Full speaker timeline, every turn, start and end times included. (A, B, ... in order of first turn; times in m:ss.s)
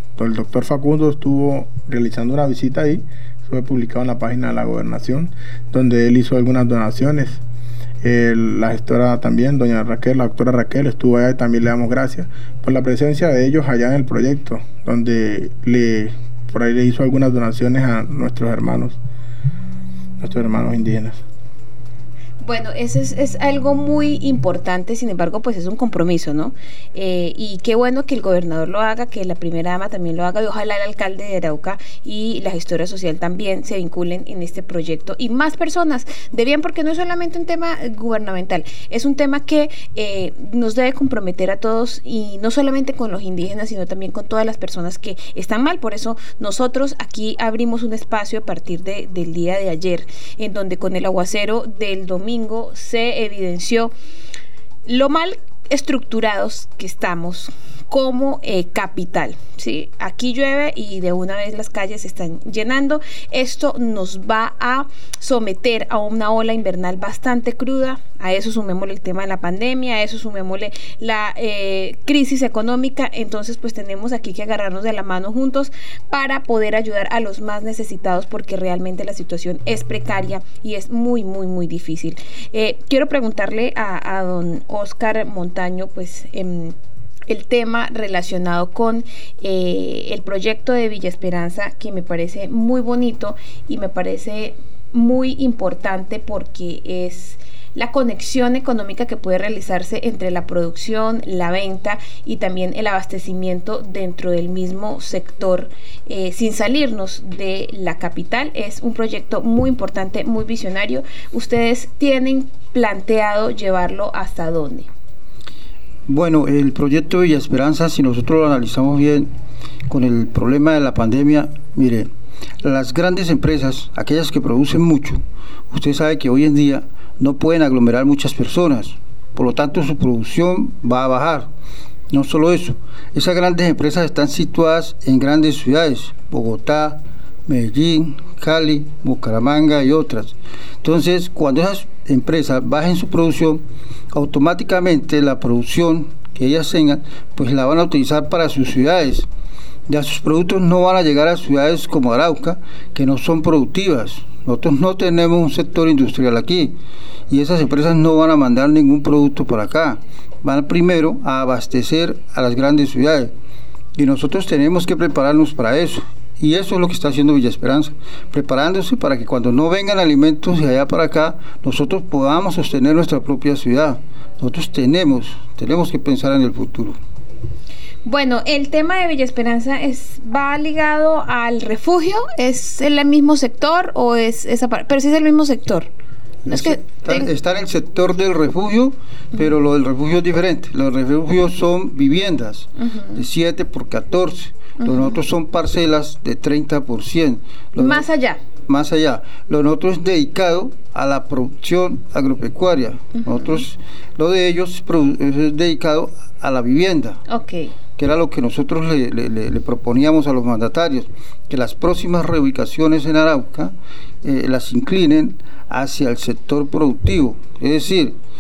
0:00.2-0:07.4 A
0:08.0-0:19.0 A
0:20.2-0:21.2 A
0:22.4-0:53.9 B
0:54.9-1:26.8 B
1:27.3-1:54.9 B
1:56.1-1:59.3 C
1:59.9-2:02.1 C
2:02.6-2:11.5 C
2:12.1-2:29.3 C
2:29.9-2:36.8 C
2:37.3-2:43.3 C
2:44.0-2:57.0 C
2:58.0-3:05.9 B
3:06.5-3:18.1 C
3:06.5-3:07.3 B
3:12.8-3:13.2 B
3:14.8-3:15.1 B
3:17.8-3:18.4 B
3:18.7-3:27.2 C
3:23.2-3:23.6 B
3:27.3-3:27.7 B
3:28.0-3:38.2 C